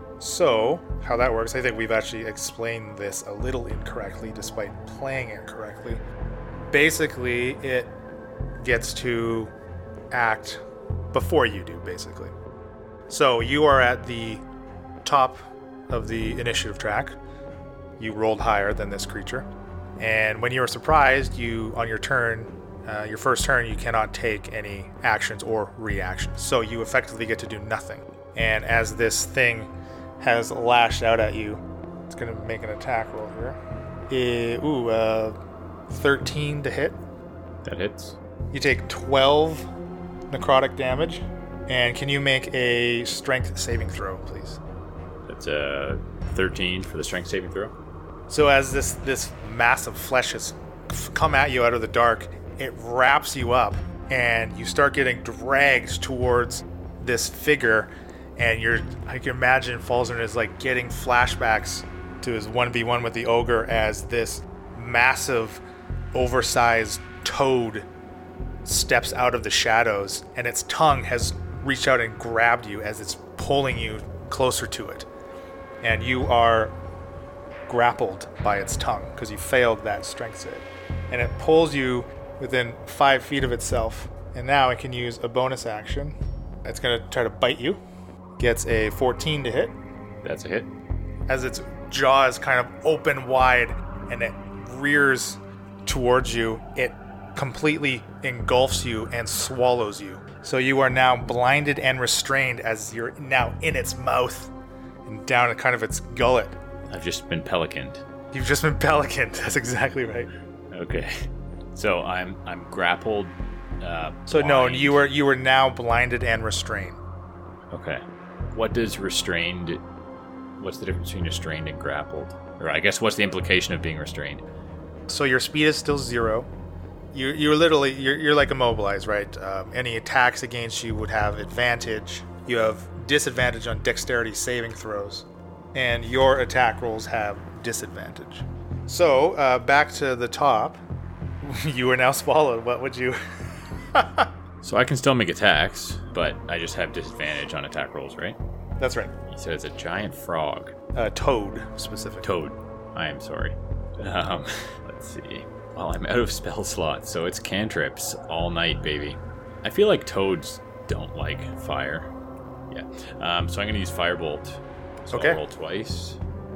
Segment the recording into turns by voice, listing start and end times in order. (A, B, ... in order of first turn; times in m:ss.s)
0:00.2-0:06.0 A
0:06.7-0:08.0 A
0:08.6-0:09.5 A
0:10.1-0:10.6 A
0:11.1-0:12.3 A
0:13.1-0:14.4 A
0:15.0-0:15.4 A
0:15.9-0:17.2 A
0:18.0-0:19.5 A
0:20.0-0:35.4 A
0:35.9-0:37.0 A
0:37.6-0:38.2 B
0:38.5-0:39.7 A
0:40.3-0:44.6 A
0:45.3-0:47.7 B
0:48.3-1:05.6 A
1:06.1-1:07.9 A
1:08.6-1:15.1 A
1:15.8-1:16.8 A
1:17.7-1:27.8 A
1:28.4-1:29.8 A
1:30.2-1:30.7 B
1:31.3-1:44.5 A
1:45.1-1:46.6 A
1:46.9-1:48.0 B
1:48.3-1:50.3 A
1:50.7-1:51.1 B
1:51.8-1:55.1 B
1:54.3-1:57.0 A
1:57.7-1:58.0 B
1:58.5-1:59.8 B
2:00.6-2:04.4 B
2:05.1-2:06.5 A
2:07.1-2:20.8 A
2:21.4-2:23.2 A
2:23.9-2:24.3 A
2:24.6-2:28.4 B
2:28.8-2:29.1 A
2:29.3-2:30.7 B
2:30.9-2:32.3 A
2:32.2-2:42.1 B
2:42.7-2:46.2 B
2:45.1-2:45.4 A